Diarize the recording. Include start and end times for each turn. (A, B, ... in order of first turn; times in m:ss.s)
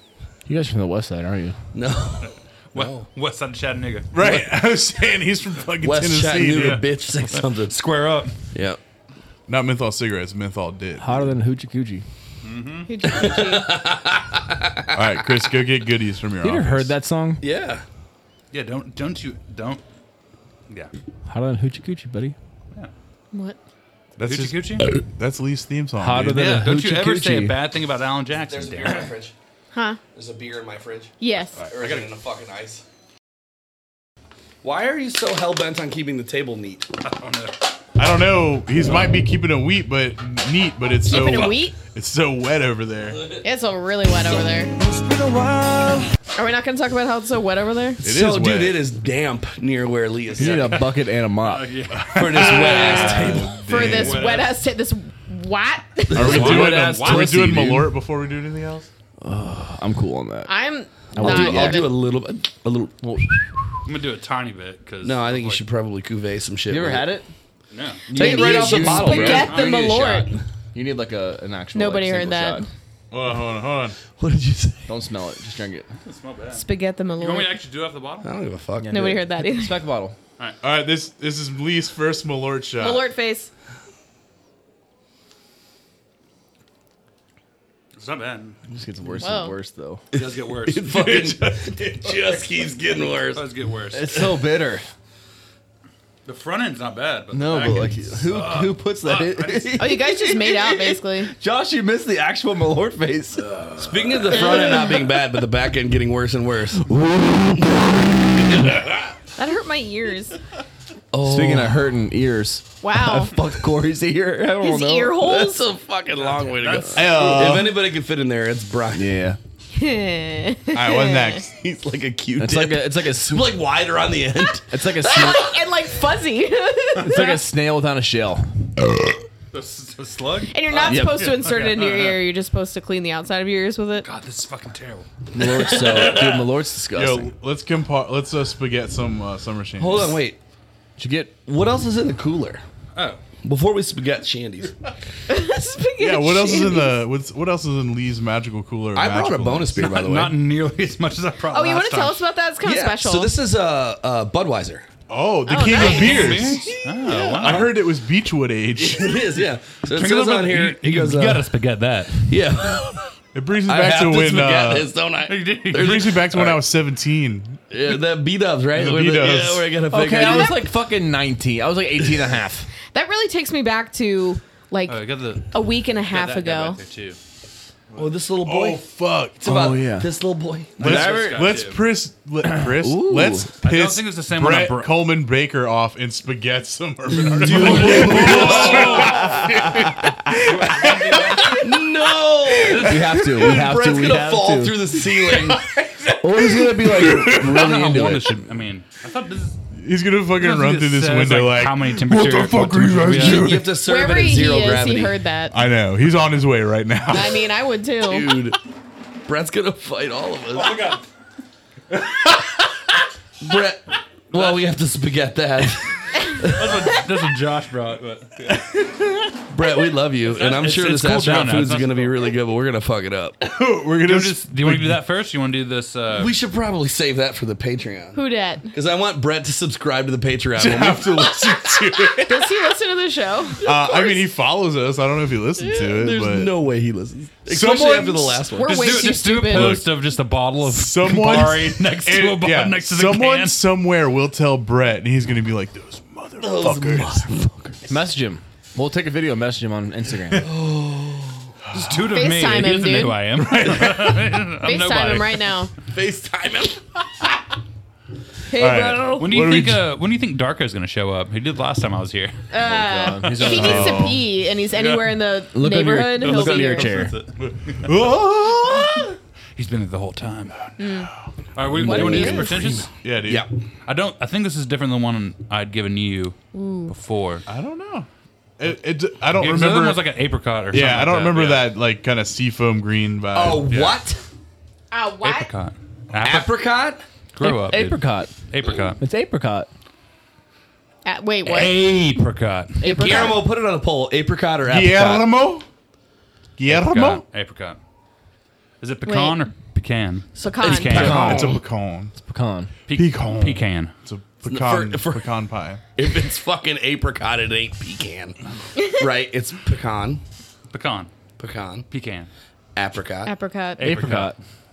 0:00.5-0:01.6 A
0:01.7-0:03.1 B
0:02.2-0:04.1 C
0:04.1-0:06.8 D
0:04.2-0:04.6 B
0:05.8-0:07.8 B
0:06.5-0:08.3 C
0:08.5-0:08.8 B
0:09.5-0:11.2 D
0:11.0-0:12.0 A
0:12.4-0:12.9 C
0:12.8-0:13.7 E
0:13.0-0:15.5 B
0:14.9-0:16.9 D
0:16.4-0:17.4 A
0:17.4-0:17.8 B
0:18.5-0:19.8 C
0:21.2-0:22.3 A
0:23.3-0:23.6 E
0:24.2-0:26.4 D
0:24.2-0:24.9 C
0:26.0-0:27.6 A
0:26.2-0:29.1 C
0:28.3-0:29.3 B
0:29.7-0:30.0 E
0:30.1-0:31.1 B
0:31.2-0:31.6 E
0:31.6-0:32.1 C
0:31.7-0:32.8 B
0:34.6-0:36.9 B
0:37.0-0:37.6 C
0:38.0-0:43.4 D
0:41.0-0:41.8 E
0:41.2-0:41.5 B
0:43.4-0:44.7 E
0:44.8-0:46.0 B
0:46.3-0:48.0 E
0:48.0-0:48.8 D
0:48.0-0:50.8 B
0:50.4-0:51.7 A
0:50.4-0:54.6 C
0:51.9-0:54.3 D
0:52.2-0:53.6 B
0:52.6-0:56.3 E
0:56.1-0:58.9 D
0:56.1-0:56.7 B
0:56.1-0:58.0 A
0:56.2-0:57.6 C
0:59.2-1:00.5 A
1:00.5-1:02.0 E
1:01.1-1:01.9 A
1:01.2-1:03.4 B
1:03.0-1:03.3 A
1:03.8-1:05.6 C
1:05.0-1:07.1 B
1:06.7-1:07.3 A
1:07.7-1:08.1 C
1:08.1-1:09.7 A
1:08.1-1:10.2 B
1:08.1-1:10.4 E
1:08.9-1:10.1 C
1:10.7-1:12.7 A
1:11.7-1:12.7 E
1:13.1-1:14.0 D
1:14.1-1:14.9 B
1:14.9-1:15.9 A
1:16.0-1:16.6 C
1:16.5-1:17.6 E
1:17.2-1:18.3 C
1:18.2-1:19.1 B
1:18.8-1:20.2 A
1:18.9-1:19.7 E
1:20.6-1:23.1 D
1:22.8-1:23.5 E
1:28.0-1:28.6 C
1:28.7-1:30.0 A
1:29.2-1:29.6 E
1:30.1-1:30.9 C
1:30.1-1:33.4 B
1:30.9-1:32.4 D
1:33.3-1:34.2 C
1:33.9-1:34.8 A
1:36.2-1:40.0 C
1:37.3-1:44.4 A
1:39.8-1:41.3 E
1:43.8-1:46.9 B
1:44.3-1:45.0 E
1:46.9-1:47.9 A
1:48.5-1:48.8 B
1:49.4-1:50.4 E
1:51.1-1:51.8 B
1:51.2-1:55.2 A
1:52.8-1:53.3 E
1:54.6-1:55.6 E
1:55.1-1:59.1 B
1:56.2-1:57.3 C
1:56.9-1:57.8 D
1:58.9-1:59.4 A
1:59.7-2:01.4 E
2:00.7-2:01.5 D
2:01.5-2:05.5 B
2:02.4-2:03.6 A
2:04.7-2:05.5 A
2:05.0-2:07.4 E
2:07.0-2:08.5 A
2:09.5-2:12.2 C
2:10.5-2:14.1 E
2:10.8-2:11.3 A
2:14.0-2:15.1 C
2:15.3-2:17.3 A
2:15.4-2:16.4 B
2:15.7-2:16.2 C
2:16.9-2:20.2 D
2:19.8-2:20.4 B
2:21.0-2:21.3 A
2:21.4-2:22.6 B
2:22.9-2:23.2 C
2:23.4-2:24.8 B
2:25.3-2:27.0 E
2:26.0-2:30.0 D
2:28.9-2:30.4 B
2:29.8-2:32.2 C
2:31.5-2:33.3 E
2:32.6-2:34.9 B
2:35.1-2:39.2 D
2:35.4-2:36.5 E
2:35.7-2:37.8 C
2:35.8-2:37.6 B
2:38.8-2:41.5 B
2:39.9-2:42.3 C
2:42.2-2:46.6 B
2:43.3-2:44.9 D
2:45.3-2:46.1 C
2:45.7-2:47.6 D
2:47.7-2:50.6 B
2:48.7-2:49.8 D
2:49.9-2:52.7 A
2:50.1-2:50.6 E
2:52.9-2:56.8 E
2:54.9-2:57.2 C
2:58.0-2:58.8 B
2:58.4-2:59.5 D
2:59.4-3:01.2 B
2:59.4-3:00.1 A
3:00.8-3:11.6 D
3:00.8-3:01.5 A
3:00.8-3:01.8 C
3:02.4-3:03.5 A
3:03.6-3:05.0 C
3:07.2-3:09.4 B
3:07.3-3:10.2 A
3:07.7-3:09.4 C
3:10.3-3:11.7 C
3:11.4-3:15.7 B
3:12.5-3:13.8 D
3:12.7-3:14.8 A
3:15.1-3:17.7 D
3:16.1-3:18.4 A
3:17.3-3:19.6 C
3:17.7-3:18.1 B
3:19.7-3:23.7 D
3:20.4-3:23.7 C
3:23.1-3:25.2 B
3:23.8-3:25.6 E
3:25.5-3:27.5 D
3:27.1-3:28.3 E
3:28.0-3:28.6 B
3:29.2-3:31.0 B
3:30.5-3:31.0 C
3:31.9-3:32.4 D
3:33.4-3:37.0 B
3:34.3-3:34.7 C
3:36.4-3:38.6 C
3:39.5-3:43.5 B
3:40.2-3:42.3 C
3:43.4-3:45.0 D
3:44.0-3:46.3 C
3:46.1-3:48.2 B
3:48.1-3:48.7 E
3:48.7-3:51.8 B
3:50.6-3:52.6 D
3:52.3-3:54.1 E
3:53.6-3:56.6 D
3:55.6-3:59.1 B
3:57.4-3:58.5 D
3:58.6-3:59.8 E
3:58.6-4:03.6 C
3:59.4-3:59.9 D
4:00.6-4:07.3 D
4:06.4-4:07.9 B
4:07.8-4:10.5 A
4:10.4-4:11.5 B
4:11.6-4:12.1 D
4:11.7-4:15.5 C
4:12.1-4:13.2 E
4:13.4-4:14.4 D
4:14.6-4:15.7 E
4:15.9-4:16.9 B
4:18.5-4:19.4 E
4:18.5-4:19.9 D
4:19.2-4:22.4 C
4:22.5-4:27.1 E
4:22.6-4:24.0 A
4:23.0-4:23.7 C
4:23.4-4:24.2 D
4:24.7-4:25.2 C
4:25.5-4:27.1 A
4:26.2-4:27.9 C
4:27.4-4:29.1 D
4:28.6-4:30.6 C
4:30.8-4:31.1 E
4:30.8-4:31.3 D
4:31.5-4:32.9 C
4:31.8-4:32.7 E
4:31.9-4:32.6 B
4:31.9-4:33.5 D
4:33.8-4:36.4 C
4:36.5-4:36.9 E
4:36.9-4:37.4 C
4:37.5-4:38.1 D
4:38.6-4:40.1 D
4:39.3-4:41.7 C
4:40.7-4:43.7 D
4:43.3-4:44.2 B
4:43.7-4:44.0 C
4:44.9-4:45.5 E
4:45.2-4:46.5 C
4:46.2-4:47.0 B
4:47.3-4:49.0 C
4:47.4-4:48.3 A
4:49.0-4:49.7 A
4:51.0-4:51.8 E
4:51.4-4:53.3 C
4:52.8-4:53.4 E
4:52.8-4:55.3 B
4:54.6-4:55.6 D
4:56.6-4:57.2 D
4:56.7-4:57.8 C
4:58.8-5:01.5 C
4:59.0-4:59.4 E
5:00.3-5:01.2 E
5:00.6-5:01.6 B
5:01.0-5:01.5 A
5:01.0-5:02.1 D
5:02.2-5:02.7 A
5:02.9-5:03.9 C
5:02.9-5:05.8 D
5:04.5-5:05.3 B
5:06.0-5:10.2 B
5:10.7-5:11.1 C
5:11.4-5:11.8 B
5:11.9-5:12.3 C
5:12.7-5:13.3 B
5:13.2-5:13.9 E
5:13.8-5:14.4 C
5:13.8-5:14.3 A